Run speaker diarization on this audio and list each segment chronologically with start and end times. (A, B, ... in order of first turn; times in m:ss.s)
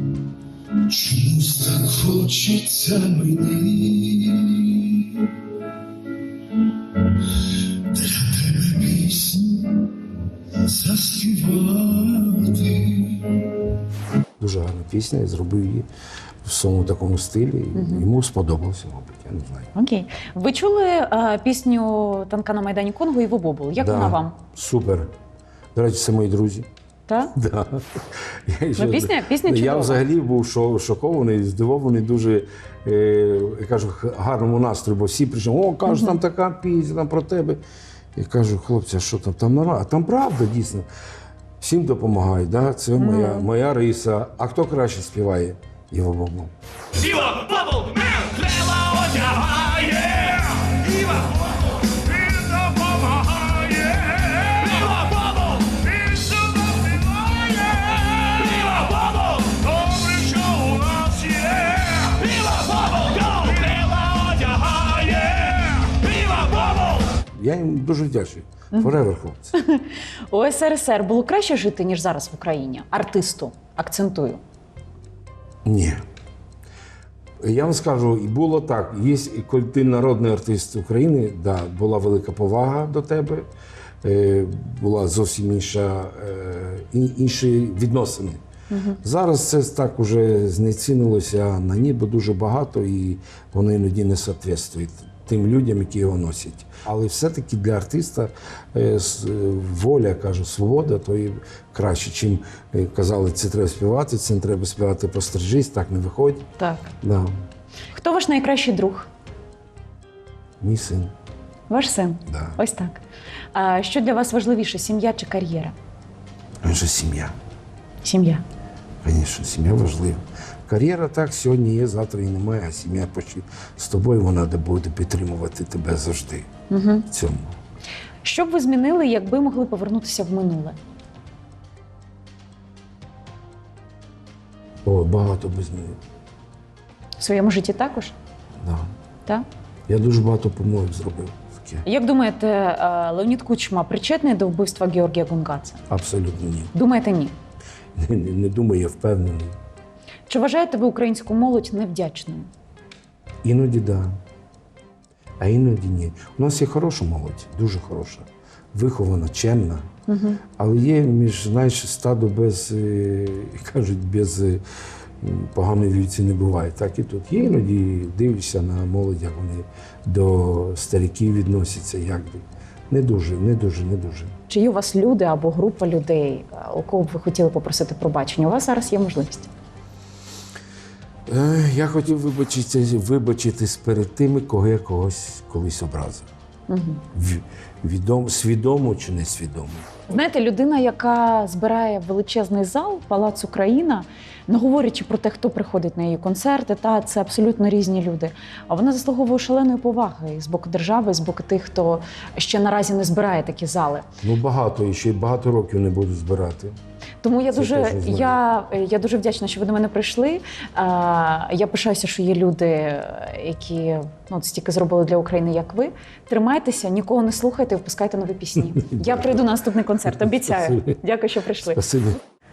0:00.8-0:05.3 A
0:07.1-0:09.9 A
0:10.5-0:13.6 A
0:14.4-0:15.9 A
0:16.4-0:19.7 A
0:17.7-0:18.0 B
0:19.7-0:24.4 B
0:23.8-0:25.1 A
0:25.7-0:26.7 A
0:27.1-0:27.3 B
0:27.3-0:37.6 A
0:28.8-0:30.0 B
0:35.9-0:36.2 B
0:38.2-0:40.8 A
0:41.6-0:46.5 A
0:43.0-0:43.5 B
0:47.3-0:51.0 C
0:52.3-0:55.4 C
0:58.2-1:06.5 C
1:07.3-1:09.5 A
1:09.6-1:14.4 B
1:15.6-1:16.0 A
1:17.4-1:23.5 A
1:24.0-1:28.4 A
1:28.7-1:29.0 B
1:29.0-1:46.5 A
1:46.6-1:46.9 B
1:47.0-1:47.4 A
1:47.9-1:49.1 B
1:50.6-1:51.1 A
1:51.7-1:53.0 B
1:52.3-1:52.6 A
1:53.5-1:55.8 B
1:56.6-1:57.3 A
1:58.0-1:58.4 B
1:59.0-2:06.5 A
2:06.7-2:07.0 B
2:07.1-2:07.6 A
2:08.2-2:10.8 B
2:14.8-2:16.0 A
2:17.2-2:18.1 B
2:18.6-2:18.9 A
2:19.9-2:21.8 A
2:21.8-2:25.8 B
2:25.9-2:26.7 A
2:26.7-2:27.3 B
2:28.0-2:29.6 A
2:30.3-2:32.5 B
2:33.4-2:34.1 A
2:35.4-2:39.9 A
2:40.1-2:40.4 B
2:40.6-2:44.6 A
2:45.2-2:54.3 A
2:54.5-2:59.5 B
3:01.3-3:06.3 A
3:06.7-3:07.0 B
3:07.1-3:10.1 A
3:10.1-3:24.0 B
3:24.2-3:26.8 A
3:27.2-3:41.8 B
3:27.5-3:28.4 A
3:38.7-3:39.4 A
3:40.6-3:40.9 A
3:41.7-3:42.2 A